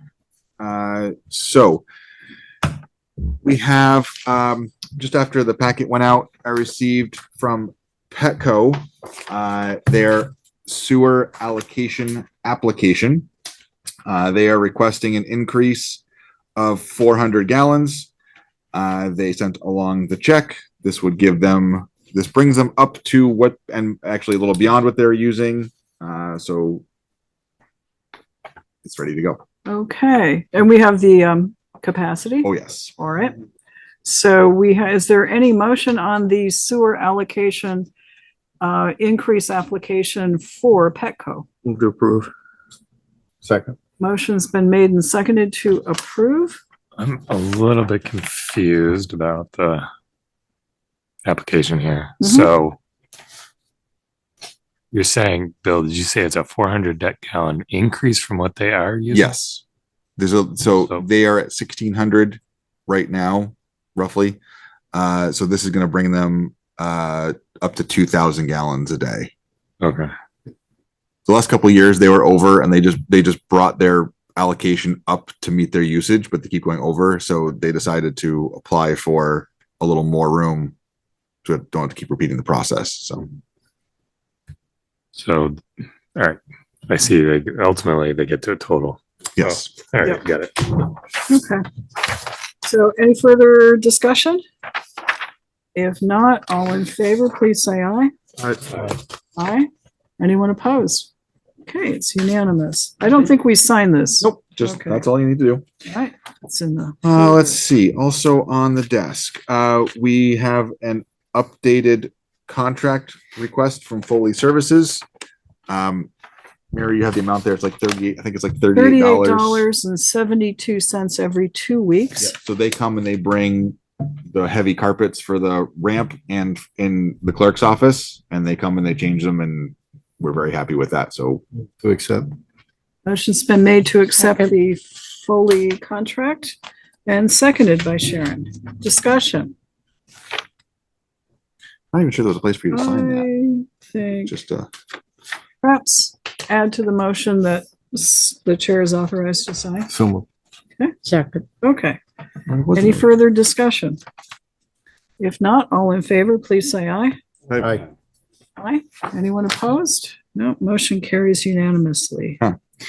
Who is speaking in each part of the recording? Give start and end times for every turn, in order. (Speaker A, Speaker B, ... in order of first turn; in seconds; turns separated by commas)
Speaker A: 0.6-1.8, Speaker A: 3.4-13.3, Speaker A: 14.1-16.0, Speaker A: 16.6-18.1, Speaker A: 18.7-26.8, Speaker A: 28.8-29.4, Speaker B: 29.7-33.4, Speaker A: 32.4-32.9, Speaker B: 34.0-37.9, Speaker B: 38.6-41.5, Speaker C: 41.6-42.3, Speaker C: 43.4-43.8, Speaker B: 44.0-46.6, Speaker D: 47.0-49.9, Speaker D: 51.2-52.8, Speaker B: 52.2-52.5, Speaker D: 54.9-59.3, Speaker A: 59.1-59.6, Speaker A: 60.2-64.4, Speaker A: 64.9-69.3, Speaker D: 69.8-70.1, Speaker A: 71.3-80.7, Speaker A: 81.5-83.3, Speaker D: 85.2-85.6, Speaker D: 86.2-90.9, Speaker A: 89.4-89.7, Speaker B: 91.3-91.7, Speaker B: 92.6-94.4, Speaker B: 95.8-98.1, Speaker B: 99.4-99.7, Speaker B: 100.2-101.1, Speaker B: 101.7-105.0, Speaker A: 104.2-105.6, Speaker B: 105.8-107.6, Speaker A: 107.0-115.0, Speaker A: 115.7-116.1, Speaker A: 116.7-119.7, Speaker B: 118.7-122.3, Speaker A: 122.2-131.4, Speaker C: 131.8-132.3, Speaker B: 133.1-139.5, Speaker A: 141.9-143.3, Speaker B: 142.7-144.3, Speaker A: 144.3-144.7, Speaker B: 145.6-149.9, Speaker C: 149.9-150.3, Speaker B: 151.6-152.0, Speaker C: 152.6-153.0, Speaker B: 152.7-154.0, Speaker B: 155.2-157.2, Speaker C: 157.5-157.8, Speaker B: 158.6-162.4